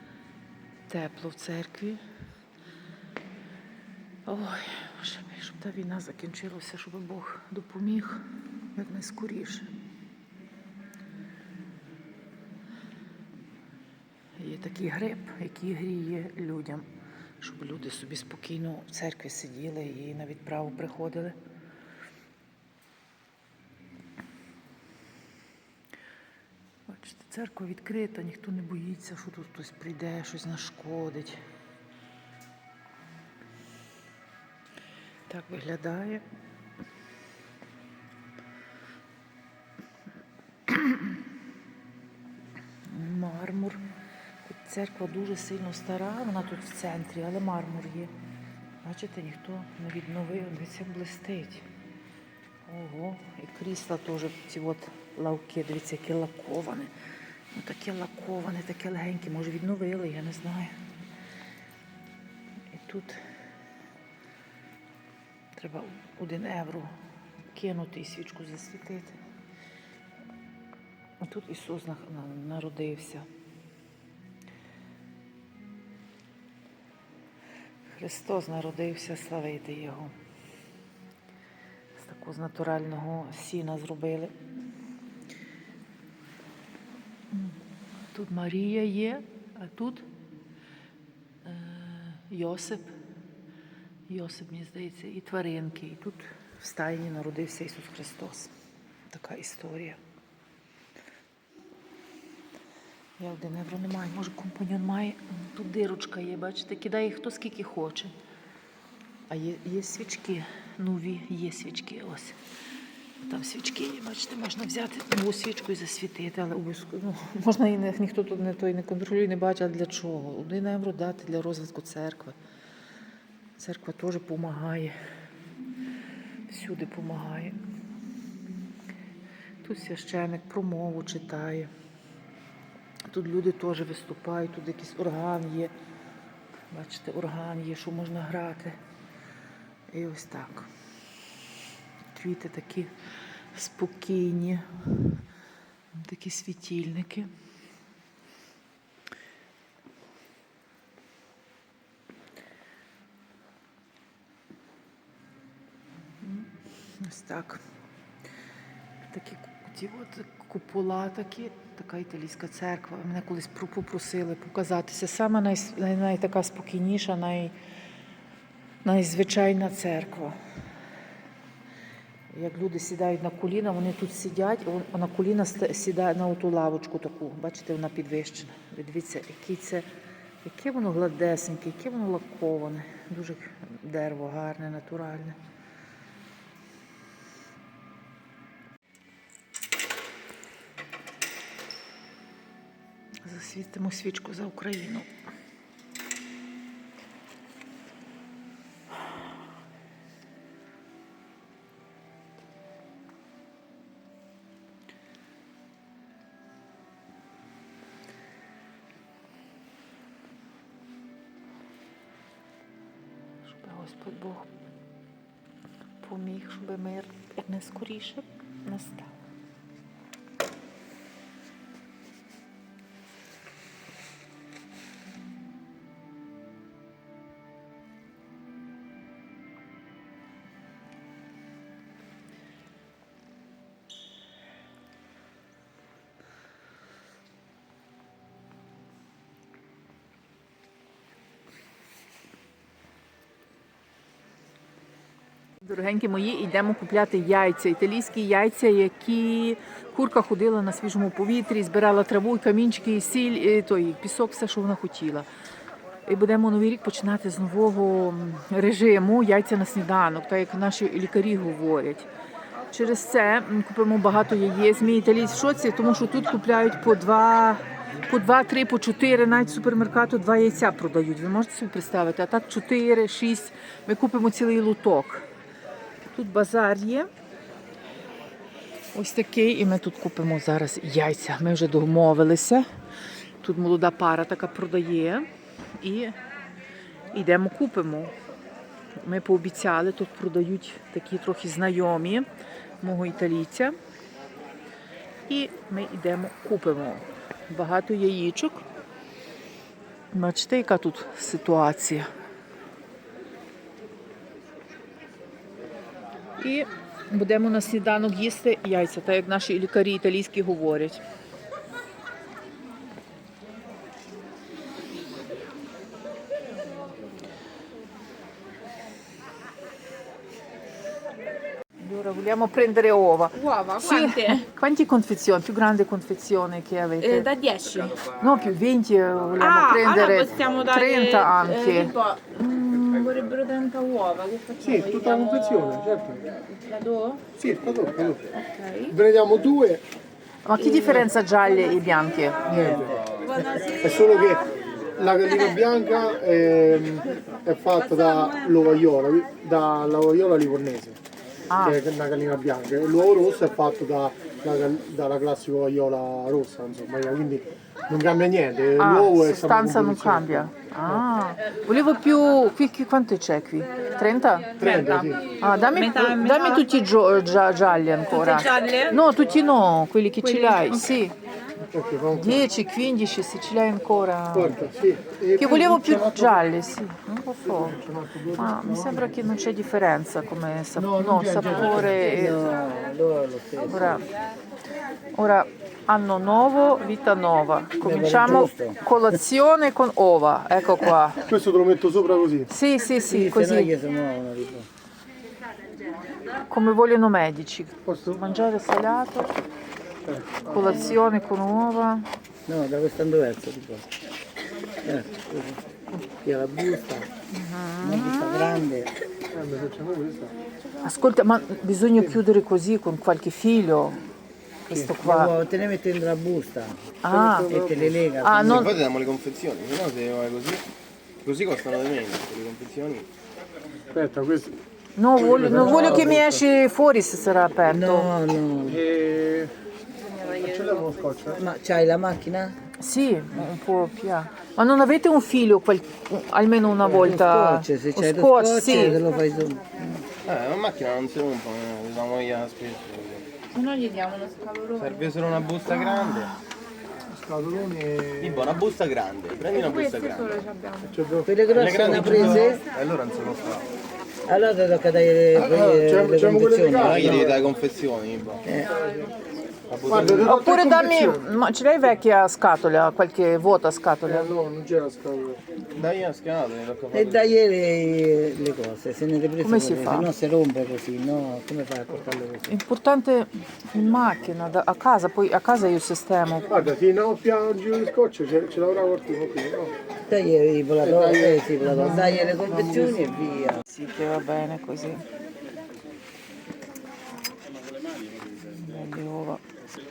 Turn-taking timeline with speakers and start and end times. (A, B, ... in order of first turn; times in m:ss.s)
0:00.9-0:02.0 A
0:04.3-0:09.7 A
0:14.4-0:16.8 A
0:17.4-0:21.4 A
0:26.9-0:31.4 A
0:35.3-0:36.2 A
0:40.7-0:41.1 A
0:42.9-0:43.8 A
0:44.5-0:48.1 A
0:48.8-0:51.7 A
0:52.7-0:56.9 A
0:57.5-1:00.8 A
1:02.7-1:03.2 A
1:05.6-1:06.9 A
1:07.5-1:09.2 A
1:11.2-1:13.3 A
1:18.0-1:20.2 A
1:22.0-1:24.3 A
1:27.3-1:27.6 A
1:28.1-1:30.1 A
1:31.4-1:32.9 A
1:34.1-1:38.5 A
1:39.1-1:40.0 A
1:43.2-1:48.1 A
1:49.3-1:52.4 A
1:53.2-2:02.4 A
2:03.6-2:05.0 A
2:06.5-2:07.6 A
2:09.6-2:11.7 A
2:13.1-2:15.7 A
2:16.7-2:18.8 A
2:19.9-2:20.7 A
2:22.2-2:22.9 A
2:23.5-2:25.2 A
2:26.0-2:27.3 A
2:36.2-2:37.6 A
2:39.1-2:47.5 A
2:48.8-2:50.4 A
2:52.3-2:59.9 A
3:00.4-3:05.4 A
3:13.2-3:15.1 A
3:33.5-3:34.5 A
3:36.0-3:39.1 A
4:05.6-4:15.3 A
4:16.1-4:22.1 A
4:22.7-4:35.3 A
4:36.1-4:37.1 A
4:38.9-4:42.7 A
4:43.4-4:45.3 A
4:45.8-4:46.2 A
4:47.1-4:48.1 A
4:49.0-4:52.3 A
4:52.8-4:53.8 A
4:55.3-4:58.6 A
5:00.1-5:02.1 A
5:06.4-5:11.0 A
5:21.8-5:27.3 A
5:23.4-5:24.4 B
5:27.0-5:28.0 B
5:28.2-5:31.9 A
5:29.4-5:35.7 B
5:34.6-5:36.2 C
5:36.5-5:37.2 B
5:37.4-5:38.2 C
5:38.4-5:39.0 B
5:38.9-5:39.8 C
5:40.4-5:42.4 A
5:42.5-5:43.1 C
5:43.2-5:44.1 B
5:43.6-5:44.4 C
5:45.0-5:51.0 C
5:51.5-5:51.8 A
5:51.6-6:01.0 C
5:58.8-6:11.2 A
6:04.6-6:05.3 C
6:04.6-6:06.6 B
6:08.1-6:09.0 B
6:10.2-6:10.9 B
6:11.7-6:12.5 C
6:12.1-6:14.6 A
6:14.3-6:16.5 C
6:15.4-6:17.8 A
6:17.4-6:19.1 C
6:18.3-6:22.5 A
6:20.8-6:22.2 C
6:21.9-6:24.0 D
6:23.7-6:24.1 A
6:25.2-6:31.2 A
6:27.8-6:28.8 D
6:31.2-6:32.5 C
6:32.5-6:33.7 A
6:33.0-6:34.7 D
6:36.5-6:39.3 A
6:37.9-6:38.2 C
6:40.0-6:41.0 C
6:40.5-6:42.1 A
6:42.5-6:43.9 D
6:44.8-6:47.1 D
6:47.3-6:48.5 A
6:47.8-6:48.9 D
6:49.3-6:50.3 C
6:50.8-6:54.0 A
6:54.7-6:55.3 A
6:54.7-6:56.8 D
6:57.0-6:57.5 A
6:57.1-6:58.0 C
6:57.4-6:58.8 D
6:58.2-6:58.8 A
6:58.4-7:00.6 E
7:01.2-7:03.1 E
7:03.9-7:04.6 C
7:05.0-7:08.1 A
7:05.2-7:06.4 C
7:05.4-7:06.3 D
7:07.7-7:08.8 D
7:08.7-7:09.5 C
7:10.1-7:10.9 B
7:10.4-7:11.4 C
7:11.4-7:12.6 D
7:12.8-7:19.0 A
7:16.8-7:20.0 D
7:20.2-7:23.2 E
7:23.5-7:25.4 B
7:24.8-7:26.3 E
7:25.7-7:26.3 A
7:27.1-7:28.6 C
7:28.2-7:30.3 E
7:29.5-7:31.0 B
7:30.9-7:32.3 C
7:31.3-7:32.6 D
7:31.5-7:33.6 E
7:34.3-7:37.3 D
7:35.4-7:37.4 C
7:36.7-7:38.4 E
7:38.4-7:38.7 D
7:39.7-7:40.4 E
7:39.9-7:41.3 C
7:40.2-7:44.3 A
7:44.1-7:45.4 C
7:45.8-7:47.3 E
7:46.9-7:52.5 D
7:49.4-7:50.1 A
7:52.5-7:56.5 A
7:56.5-7:59.7 C
8:00.1-8:03.6 D
8:00.8-8:03.1 C
8:01.8-8:02.4 A
8:03.7-8:05.0 A
8:08.5-8:09.4 A